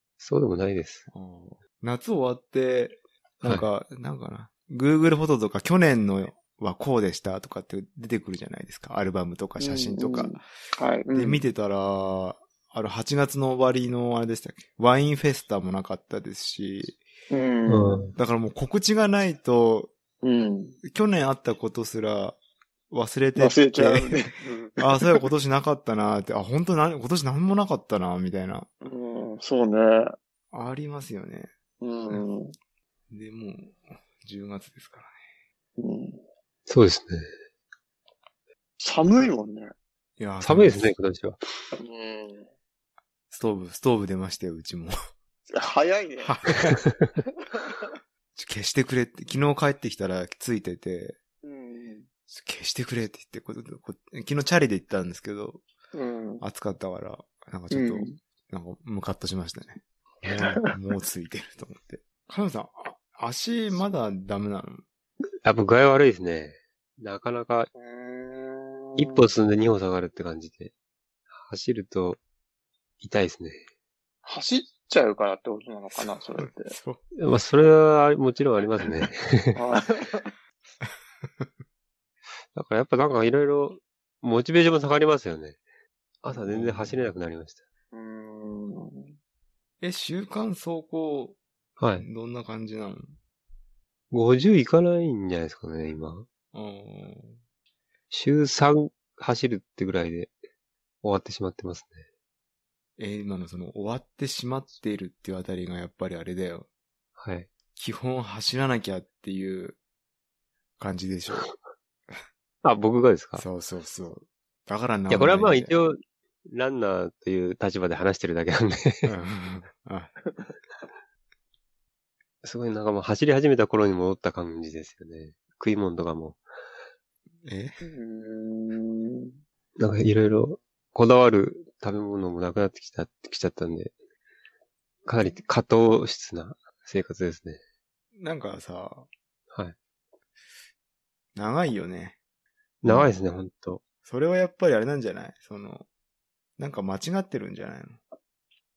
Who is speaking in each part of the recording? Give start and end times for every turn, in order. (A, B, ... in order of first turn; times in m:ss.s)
0:00.2-0:01.0 A
0:01.1-0:10.4 B
0:09.6-0:11.4 C
0:11.1-0:17.0 B
0:17.3-0:18.0 C
0:17.7-0:18.1 A
0:18.2-0:19.9 B
0:20.2-0:20.8 C
0:20.8-0:22.4 B
0:22.9-0:28.7 B
0:23.4-0:25.2 C
0:28.8-0:30.1 C
0:30.5-0:31.5 B
0:31.8-0:32.5 C
0:33.1-0:35.1 B
0:35.8-0:36.2 C
0:36.7-0:37.3 A
0:38.8-0:39.7 C
0:40.2-0:40.9 B
0:40.4-0:41.4 A
0:41.7-0:42.5 C
0:43.3-0:45.0 B
0:45.5-0:46.4 C
0:46.2-0:46.8 B
0:47.5-0:47.9 C
0:48.3-0:51.2 B
0:51.4-0:52.1 C
0:52.3-0:55.6 B
0:55.9-0:56.4 C
0:56.4-1:04.8 B
0:57.7-0:58.2 C
1:05.4-1:07.7 A
1:07.7-1:09.2 C
1:09.0-1:10.7 A
1:11.4-1:12.2 A
1:13.0-1:13.6 A
1:14.2-1:16.7 C
1:15.9-1:17.0 B
1:17.1-1:19.6 A
1:19.5-1:20.3 C
1:22.5-1:25.6 A
1:26.2-1:27.6 A
1:26.3-1:27.1 B
1:27.9-1:29.1 C
1:29.8-1:31.4 B
1:31.8-1:32.1 A
1:31.9-1:33.1 B
1:34.1-1:36.3 A
1:36.5-1:37.4 B
1:38.1-1:40.3 A
1:41.0-1:42.0 A
1:43.0-1:46.7 B
1:47.2-1:47.5 A
1:47.8-1:49.8 B
1:50.8-1:51.5 B
1:52.6-1:53.4 A
1:53.4-1:55.7 B
1:55.1-1:59.1 A
1:59.0-2:00.1 B
2:02.4-2:06.4 A
2:07.4-2:07.8 B
2:07.8-2:09.3 C
2:09.8-2:13.9 A
2:15.0-2:17.6 A
2:18.2-2:19.1 B
2:21.3-2:22.2 B
2:22.8-2:23.8 A
2:22.8-2:23.2 B
2:24.0-2:25.8 B
2:26.6-2:28.0 B